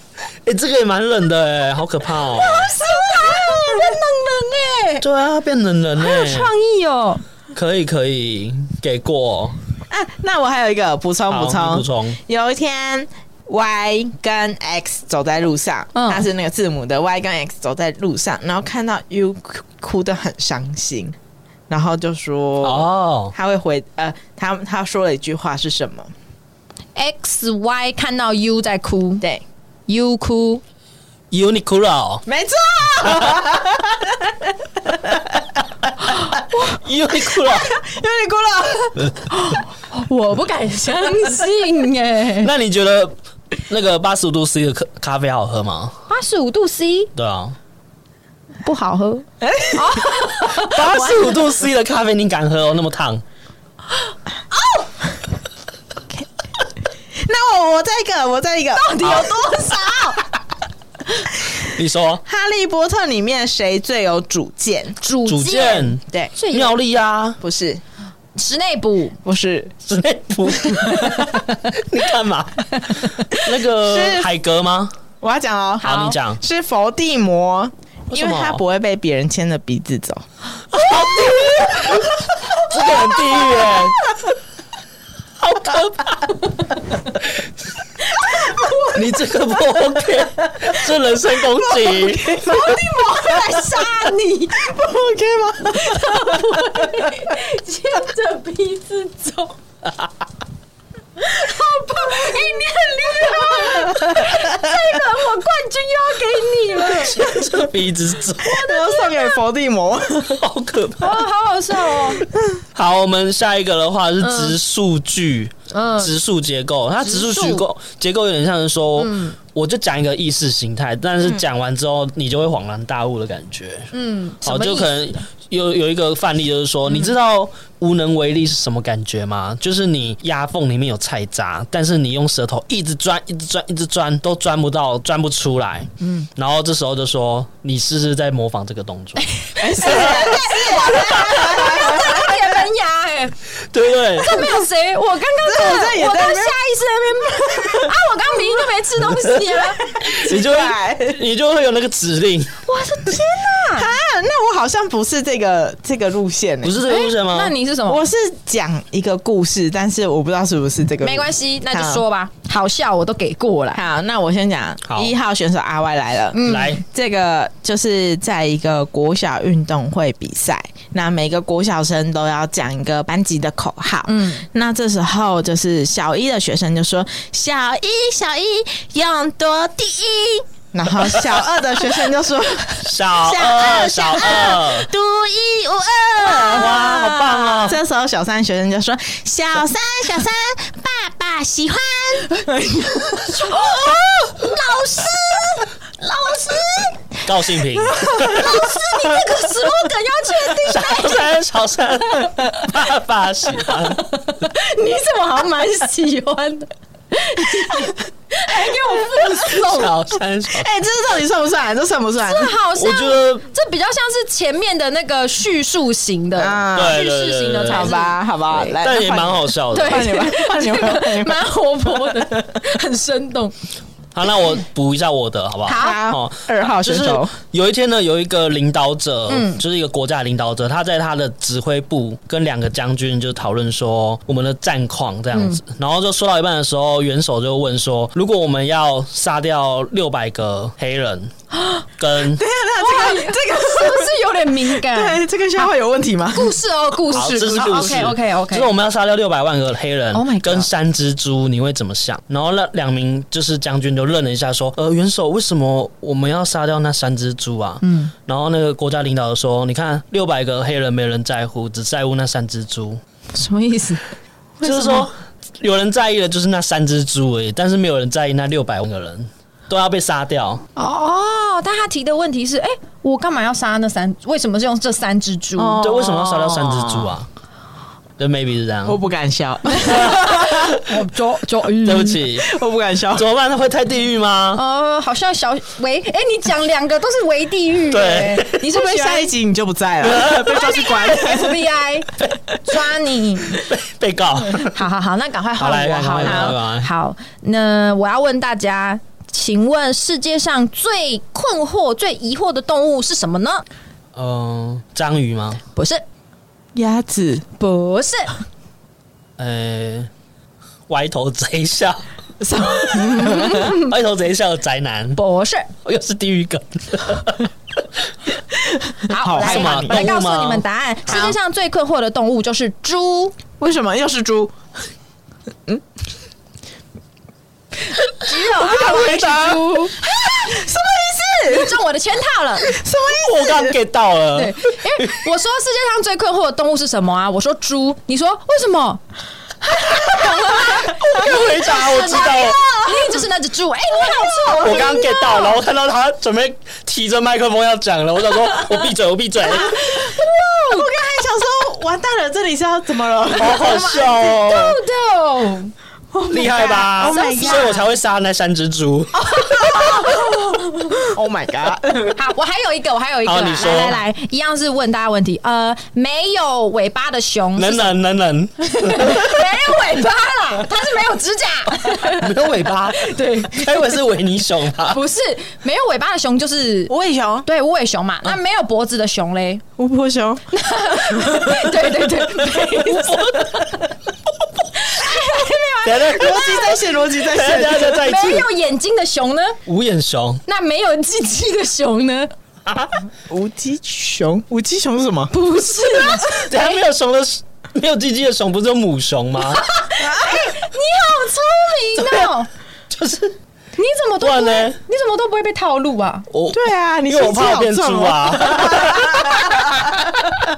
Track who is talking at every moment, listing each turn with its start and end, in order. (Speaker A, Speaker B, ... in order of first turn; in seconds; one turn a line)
Speaker A: 0.4-2.7
Speaker B: 2.3-5.0
Speaker A: 5.0-6.5
Speaker B: 6.0-7.2
Speaker A: 7.5-9.6
Speaker C: 9.9-21.1
Speaker A: 11.3-12.2
Speaker B: 15.9-16.3
Speaker C: 21.7-26.1
Speaker A: 22.6-23.3
Speaker B: 26.9-29.2
Speaker B: 29.9-30.6
Speaker A: 31.3-32.2
Speaker C: 32.2-35.4
Speaker B: 36.1-36.8
Speaker A: 36.7-37.8
Speaker C: 37.5-39.0
Speaker B: 39.3-42.5
Speaker A: 42.4-43.1
Speaker A: 43.7-46.0
Speaker B: 46.1-47.1
Speaker A: 47.1-47.5
Speaker B: 48.6-51.4
Speaker C: 49.4-50.0
Speaker A: 50.5-53.2
Speaker B: 54.5-54.9
Speaker C: 57.1-59.2
Speaker B: 58.7-60.3
Speaker A: 61.6-62.2
Speaker C: 62.2-65.0
Speaker B: 65.0-66.7
Speaker A: 65.3-67.4
Speaker C: 67.4-67.8
Speaker B: 68.3-69.2
Speaker C: 69.2-69.7
Speaker A: 69.8-74.9
Speaker C: 73.8-74.3
Speaker C: 75.2-80.2
Speaker B: 75.8-76.2
Speaker A: 75.8-76.4
Speaker A: 78.1-78.6
Speaker A: 80.7-84.1
Speaker B: 81.2-81.8
Speaker A: 85.4-86.3
Speaker B: 88.1-89.0
Speaker A: 88.9-92.4
Speaker C: 91.5-93.3
Speaker B: 92.4-94.7
Speaker C: 94.5-97.0
Speaker B: 95.7-99.5
Speaker B: 101.2-107.4
Speaker C: 103.7-104.4
Speaker A: 107.0-108.7
Speaker C: 108.4-110.4
Speaker B: 108.5-109.3
Speaker A: 110.3-111.3
Speaker B: 111.0-112.2
Speaker A: 112.7-123.9
Speaker B: 114.2-114.5
Speaker B: 115.7-116.1
Speaker B: 117.0-117.6
Speaker B: 119.0-119.3
Speaker B: 123.9-125.2
Speaker A: 124.4-139.3
Speaker B: 139.2-143.3
Speaker C: 139.6-142.4
Speaker A: 139.8-141.6
Speaker A: 143.7-144.5
Speaker B: 144.2-149.9
Speaker C: 145.4-146.6
Speaker C: 147.4-148.0
Speaker C: 150.0-151.2
Speaker A: 150.0-152.6
Speaker B: 152.6-153.9
Speaker C: 153.7-156.8
Speaker A: 156.6-157.5
Speaker B: 156.8-158.0
Speaker C: 157.9-162.0
Speaker B: 161.0-163.8
Speaker C: 163.7-193.3
Speaker A: 164.8-165.1
Speaker B: 166.3-166.8
Speaker A: 166.4-166.8
Speaker B: 174.1-174.4
Speaker A: 182.8-184.9
Speaker B: 186.3-187.6
Speaker A: 186.5-187.8
Speaker B: 192.9-197.0
Speaker A: 197.2-198.7
Speaker C: 198.0-198.4
Speaker B: 198.2-201.3
Speaker A: 200.6-204.1
Speaker B: 203.7-210.0
Speaker A: 209.5-210.7
Speaker C: 210.5-212.5
Speaker B: 212.2-218.8
Speaker A: 212.8-213.4
Speaker C: 216.3-217.0
Speaker A: 216.7-218.0
Speaker C: 217.7-221.5
Speaker A: 218.6-220.1
Speaker B: 219.7-223.5
Speaker A: 224.1-241.3
Speaker B: 225.7-226.0
Speaker C: 225.7-227.3
Speaker B: 229.3-229.6
Speaker B: 235.3-235.6
Speaker A: 242.0-242.4
Speaker C: 242.4-244.1
Speaker B: 242.8-245.7
Speaker C: 244.7-246.6
Speaker B: 246.3-248.7
Speaker A: 247.1-263.0
Speaker B: 250.1-250.7
Speaker B: 257.8-258.1
Speaker B: 263.3-264.1
Speaker A: 264.6-270.6
Speaker B: 264.6-265.1
Speaker B: 270.8-275.8
Speaker C: 275.6-277.1
Speaker A: 275.8-277.3
Speaker A: 278.2-279.0
Speaker C: 278.8-280.7
Speaker B: 279.8-282.2
Speaker A: 279.9-280.7
Speaker A: 281.8-282.5
Speaker C: 282.4-283.2
Speaker A: 283.1-284.6
Speaker B: 284.5-289.3
Speaker A: 287.9-288.6
Speaker C: 288.6-291.6
Speaker A: 290.0-291.2
Speaker B: 290.5-292.1
Speaker B: 292.6-293.6
Speaker A: 293.5-294.8
Speaker B: 294.6-303.6
Speaker A: 295.6-296.9
Speaker C: 296.2-296.6
Speaker A: 304.1-305.6
Speaker B: 305.7-306.0
Speaker C: 306.7-307.4
Speaker B: 307.6-308.3
Speaker A: 309.4-310.1
Speaker A: 310.9-312.0
Speaker C: 312.4-313.7
Speaker B: 312.8-313.9
Speaker A: 313.2-315.2
Speaker B: 315.1-315.7
Speaker A: 315.8-317.5
Speaker C: 318.9-320.1
Speaker B: 319.1-323.4
Speaker A: 319.4-321.3
Speaker C: 323.6-324.6
Speaker B: 328.1-330.0
Speaker A: 328.4-329.8
Speaker C: 330.0-331.8
Speaker B: 331.4-332.8
Speaker C: 332.6-333.8
Speaker A: 333.2-335.2
Speaker B: 334.3-339.0
Speaker B: 339.6-345.6
Speaker C: 340.5-341.2
Speaker A: 341.0-342.6
Speaker C: 342.0-343.1
Speaker C: 344.3-344.7
Speaker A: 344.5-349.8
Speaker B: 349.5-350.9
Speaker C: 350.2-354.0
Speaker A: 353.4-354.8
Speaker B: 353.4-355.7
Speaker C: 356.1-357.8
Speaker A: 356.3-359.6
Speaker B: 356.5-357.8
Speaker B: 359.1-361.0
Speaker C: 359.7-360.3
Speaker C: 360.9-362.1
Speaker B: 362.1-367.9
Speaker A: 363.2-364.0
Speaker A: 367.6-369.3
Speaker B: 368.6-372.3
Speaker A: 372.1-375.0
Speaker B: 372.9-373.9
Speaker B: 374.9-376.9
Speaker C: 376.9-377.5
Speaker B: 377.4-379.6
Speaker C: 379.8-380.4
Speaker B: 380.5-383.8
Speaker A: 382.5-383.7
Speaker B: 384.7-386.8
Speaker A: 385.8-388.5
Speaker C: 386.1-388.0
Speaker B: 387.7-389.6
Speaker A: 389.6-390.4
Speaker B: 390.4-392.3
Speaker A: 392.6-392.9
Speaker C: 393.3-395.3
Speaker B: 395.3-396.8
Speaker A: 396.1-399.7
Speaker B: 399.5-402.5
Speaker C: 400.0-400.5
Speaker A: 401.9-402.3
Speaker A: 402.9-403.3
Speaker B: 403.8-406.3
Speaker A: 404.2-404.8
Speaker A: 406.3-410.0
Speaker C: 406.5-410.1